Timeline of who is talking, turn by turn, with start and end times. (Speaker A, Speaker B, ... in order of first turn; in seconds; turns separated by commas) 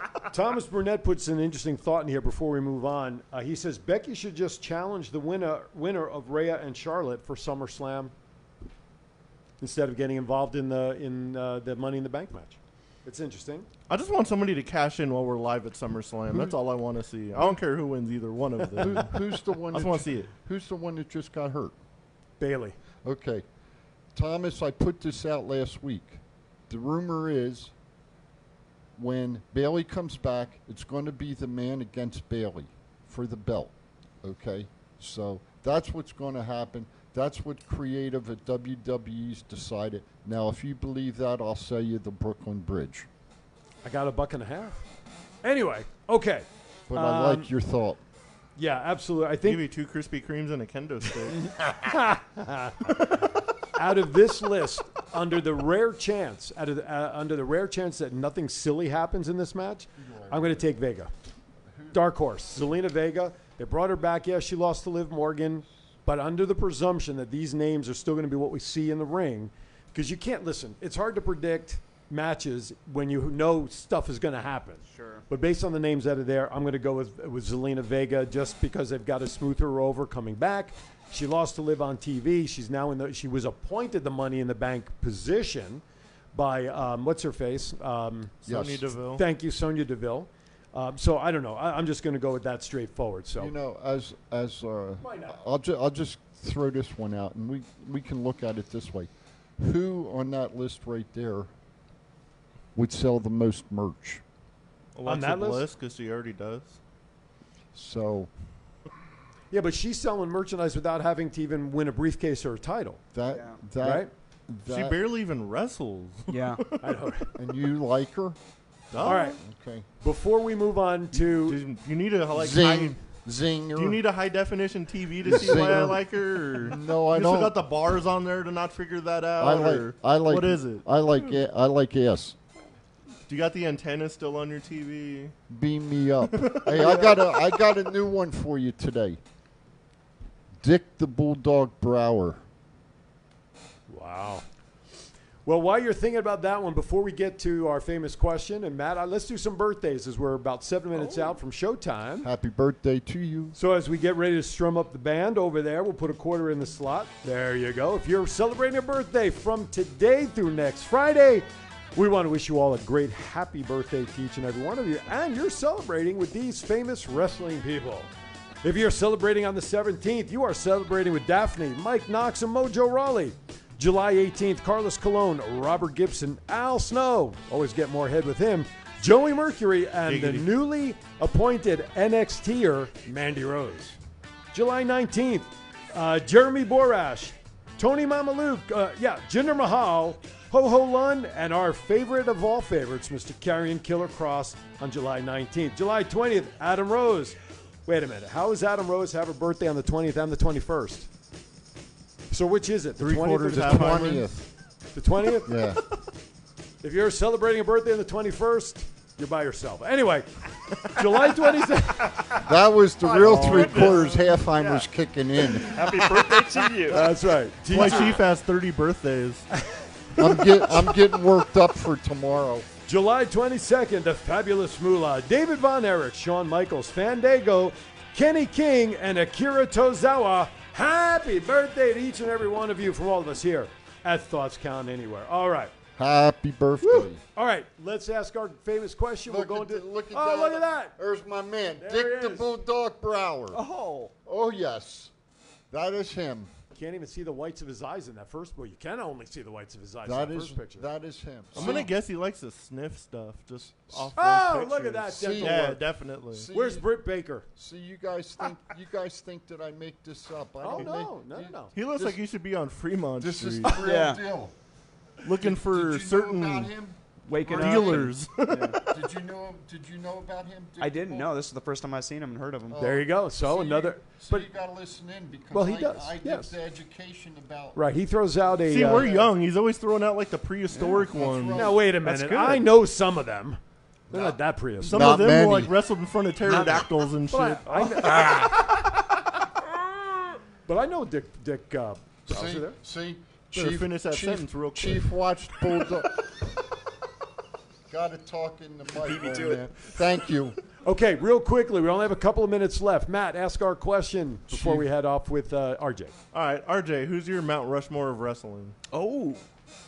Speaker A: 0.3-8.1, Speaker A: 9.6-13.7, Speaker B: 13.9-19.2, Speaker C: 18.8-21.8, Speaker B: 19.7-20.3, Speaker A: 22.4-22.8, Speaker C: 23.0-23.4, Speaker C: 24.1-27.7, Speaker C: 29.0-43.1, Speaker A: 43.8-44.9, Speaker A: 45.4-47.5, Speaker C: 46.9-48.0, Speaker A: 48.6-49.6, Speaker B: 49.4-51.5, Speaker A: 51.6-52.8, Speaker A: 53.8-61.1, Speaker C: 60.0-60.7, Speaker C: 61.7-62.0, Speaker A: 61.9-85.8, Speaker D: 74.9-75.3, Speaker A: 86.3-88.4, Speaker B: 88.4-89.2, Speaker C: 88.5-88.9, Speaker A: 89.2-93.5, Speaker C: 93.4-101.5, Speaker A: 95.0-95.4, Speaker C: 102.8-104.2, Speaker B: 105.0-106.8, Speaker A: 105.1-105.7, Speaker C: 107.7-108.3, Speaker A: 109.5-113.0, Speaker C: 113.1-115.0, Speaker D: 113.3-113.6, Speaker A: 113.8-114.1, Speaker B: 114.7-117.0, Speaker D: 116.3-116.6, Speaker A: 116.8-117.3, Speaker C: 117.4-118.4, Speaker B: 118.9-119.4, Speaker A: 119.0-119.4, Speaker C: 119.0-119.9, Speaker A: 120.0-121.6, Speaker B: 121.2-123.0, Speaker C: 122.3-124.0, Speaker B: 123.8-130.9, Speaker C: 125.2-127.6, Speaker C: 129.4-132.4, Speaker B: 133.3-135.3, Speaker C: 135.5-139.2, Speaker B: 136.3-137.1, Speaker C: 140.6-142.4, Speaker A: 143.9-144.4, Speaker A: 145.5-152.3, Speaker D: 151.0-151.3, Speaker C: 152.2-153.6, Speaker A: 153.6-168.1, Speaker A: 168.6-184.0, Speaker B: 180.1-180.5, Speaker A: 184.5-201.1, Speaker A: 202.3-204.2, Speaker B: 203.0-204.3, Speaker C: 203.6-204.4, Speaker A: 204.9-205.5, Speaker C: 205.5-205.8, Speaker A: 206.8-212.5, Speaker C: 212.4-216.8, Speaker A: 213.2-213.9, Speaker D: 213.3-214.9, Speaker D: 215.6-217.0, Speaker A: 216.9-218.2, Speaker B: 217.7-219.5, Speaker A: 219.6-220.8, Speaker C: 220.2-222.7, Speaker A: 222.9-235.7, Speaker C: 236.0-237.2, Speaker A: 236.8-241.0, Speaker C: 239.3-243.6, Speaker A: 241.8-242.6, Speaker D: 243.5-244.1, Speaker C: 244.2-245.1, Speaker C: 245.7-246.5, Speaker A: 246.7-250.9, Speaker C: 250.1-251.9, Speaker B: 251.5-256.5, Speaker A: 251.6-251.8, Speaker A: 254.2-255.7, Speaker C: 255.1-256.9, Speaker A: 256.5-257.5, Speaker C: 257.6-262.2, Speaker A: 260.6-261.7, Speaker B: 261.8-263.9, Speaker C: 263.2-264.5, Speaker D: 263.7-264.2, Speaker B: 265.2-266.7, Speaker C: 265.3-268.1, Speaker D: 267.3-268.8, Speaker B: 267.4-268.7, Speaker C: 268.7-271.3, Speaker D: 270.8-272.8, Speaker C: 272.7-277.8, Speaker A: 272.8-274.5, Speaker A: 275.5-276.5, Speaker A: 277.8-279.1, Speaker B: 278.7-282.6, Speaker C: 278.9-279.3, Speaker C: 280.8-282.0, Speaker A: 281.6-283.6, Speaker A: 284.1-285.1, Speaker B: 284.8-288.3, Speaker C: 284.9-285.7, Speaker A: 286.5-289.5, Speaker A: 290.7-292.8, Speaker C: 292.3-296.4, Speaker B: 293.5-295.1, Speaker C: 297.9-300.6, Speaker D: 298.9-299.9, Speaker A: 300.8-306.1, Speaker B: 306.3-308.8, Speaker D: 308.9-309.4